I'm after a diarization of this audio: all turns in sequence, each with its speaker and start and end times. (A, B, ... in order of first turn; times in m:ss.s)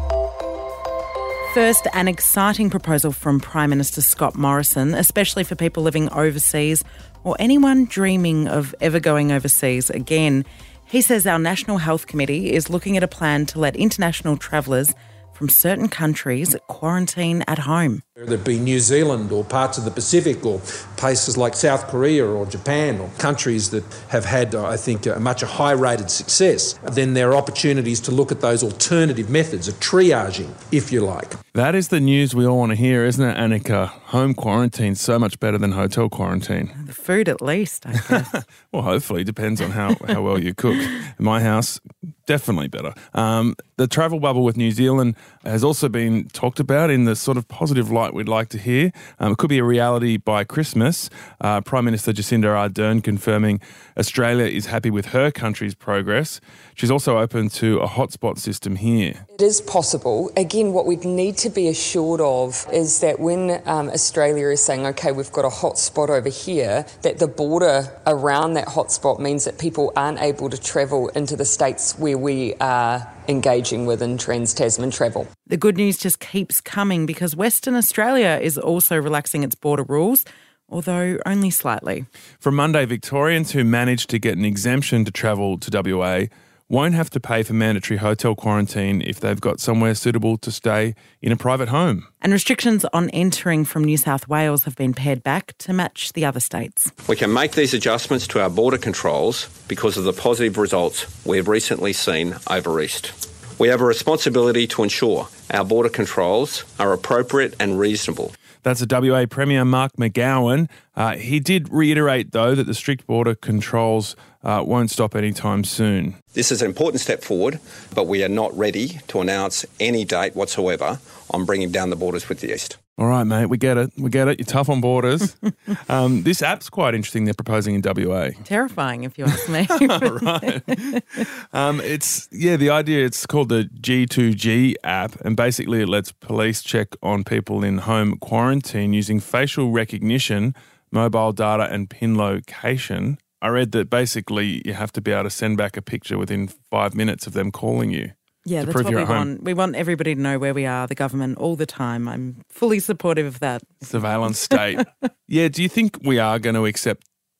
0:01.5-0:18.0 A
0:18.2-0:31.4 B
0:31.5-0:36.7 C
0:36.8-0:38.3 A
0:38.7-0:59.2 C
0:59.3-1:15.3 D
1:15.5-1:22.1 A
1:22.4-1:32.1 C
1:32.2-1:36.9 A
1:37.0-1:48.3 E
1:48.6-1:56.2 C
1:56.3-2:02.8 E
2:03.0-2:08.4 C
2:08.4-2:10.3 A
2:09.8-2:29.3 C
2:28.4-2:33.8 A
2:33.8-2:37.0 C